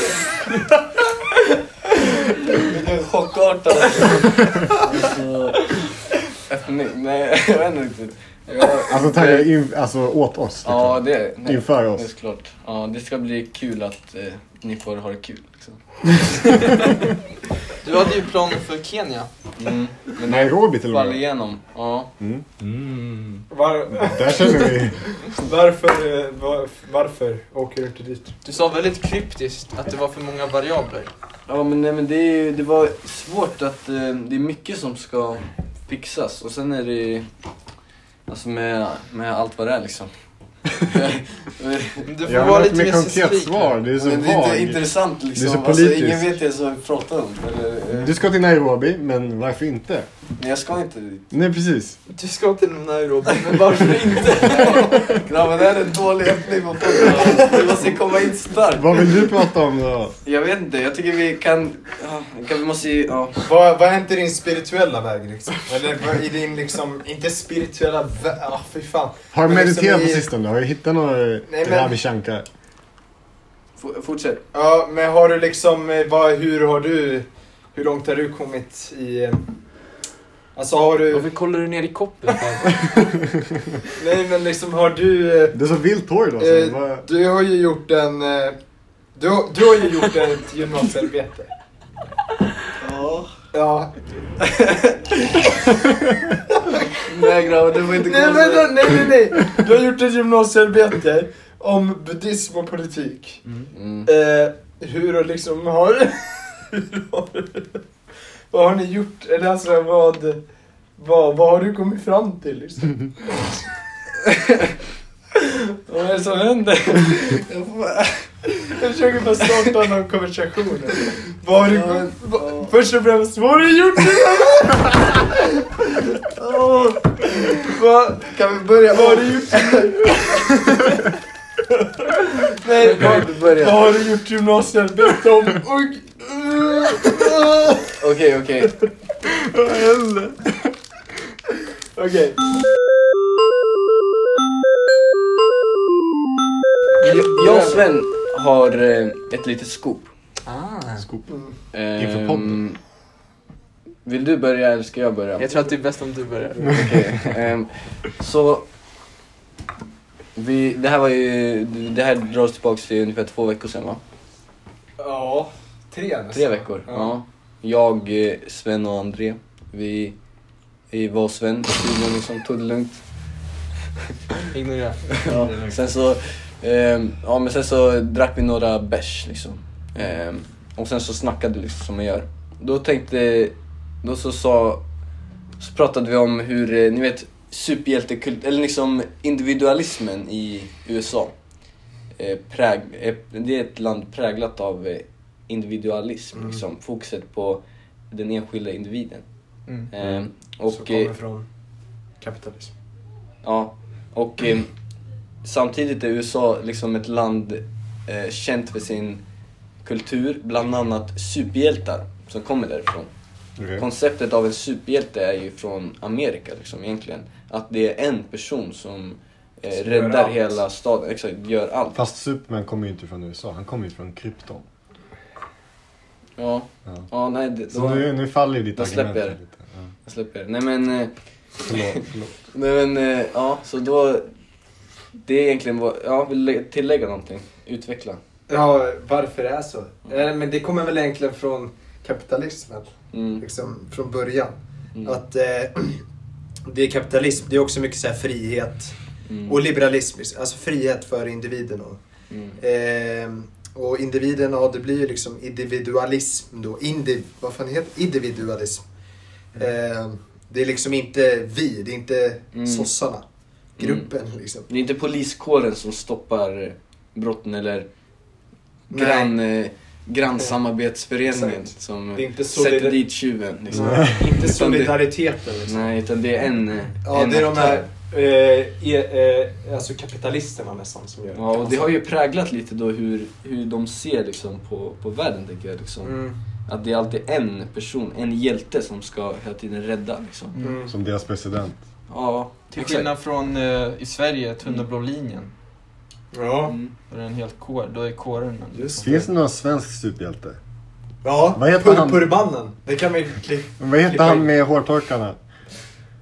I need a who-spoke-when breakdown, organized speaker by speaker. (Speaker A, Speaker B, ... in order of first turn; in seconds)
Speaker A: 2.5-9.5, 10.7-16.7, 19.6-22.1, 31.5-37.3, 38.3-40.1, 40.8-42.1, 44.0-48.2, 50.4-51.3, 53.5-59.2, 60.2-63.5, 73.8-74.4, 92.8-93.3, 97.1-99.1, 103.7-104.1, 115.9-118.6, 121.5-122.7, 126.4-127.1, 128.9-130.0, 132.8-133.9, 138.0-138.8, 147.0-150.1, 151.7-152.8, 154.0-155.5, 156.7-158.7, 160.3-164.0, 166.3-170.2, 170.9-173.0, 175.2-184.8, 185.6-191.3, 192.2-199.2, 199.9-201.1, 203.4-204.7, 205.4-209.2, 209.8-213.1, 213.8-222.0, 226.4-228.1, 228.8-229.4, 230.1-231.1, 231.7-234.3, 235.2-238.2, 243.1-243.4, 249.3-249.6, 252.3-252.6, 262.5-262.9, 263.8-264.1, 264.7-267.9, 268.9-275.1, 275.7-277.9, 281.3-290.6, 292.1-293.1
Speaker B: 8.9-12.1, 20.3-21.2, 22.2-22.5, 23.9-25.0, 42.2-46.3, 48.0-50.1, 51.3-52.0, 58.7-60.2, 69.3-72.5, 85.5-87.0, 139.4-140.7, 151.0-151.3, 152.0-152.6, 213.6-213.8, 221.9-224.6, 227.7-229.9, 231.6-232.3, 273.8-274.1, 290.9-291.8, 299.0-300.6, 301.5-302.3, 303.8-305.4
Speaker C: 17.8-19.3, 28.4-31.1, 42.0-43.8, 52.1-55.0, 81.1-82.7, 147.0-147.8, 150.4-151.1, 155.4-156.7, 174.5-175.0, 290.5-290.8, 292.7-295.5, 297.1-299.1
Speaker D: 23.5-28.3, 63.4-70.2, 71.5-72.0, 74.5-79.5, 80.5-81.3, 84.0-85.6, 86.4-88.6, 89.2-91.5, 93.5-95.0, 97.9-103.5, 104.0-107.8, 108.5-110.4, 111.0-113.6, 118.7-126.1, 127.2-131.1, 132.6-138.0, 142.0-142.4, 165.0-167.2, 175.3-175.8, 200.7-201.5, 202.2-202.7, 219.8-220.6, 238.5-246.0, 246.7-252.0, 252.6-258.8, 259.5-263.2, 263.8-264.6, 268.9-269.4, 271.2-273.0, 273.7-275.9, 277.0-282.0, 286.0-286.4, 290.6-290.9, 296.3-296.8, 298.8-299.3, 301.2-304.5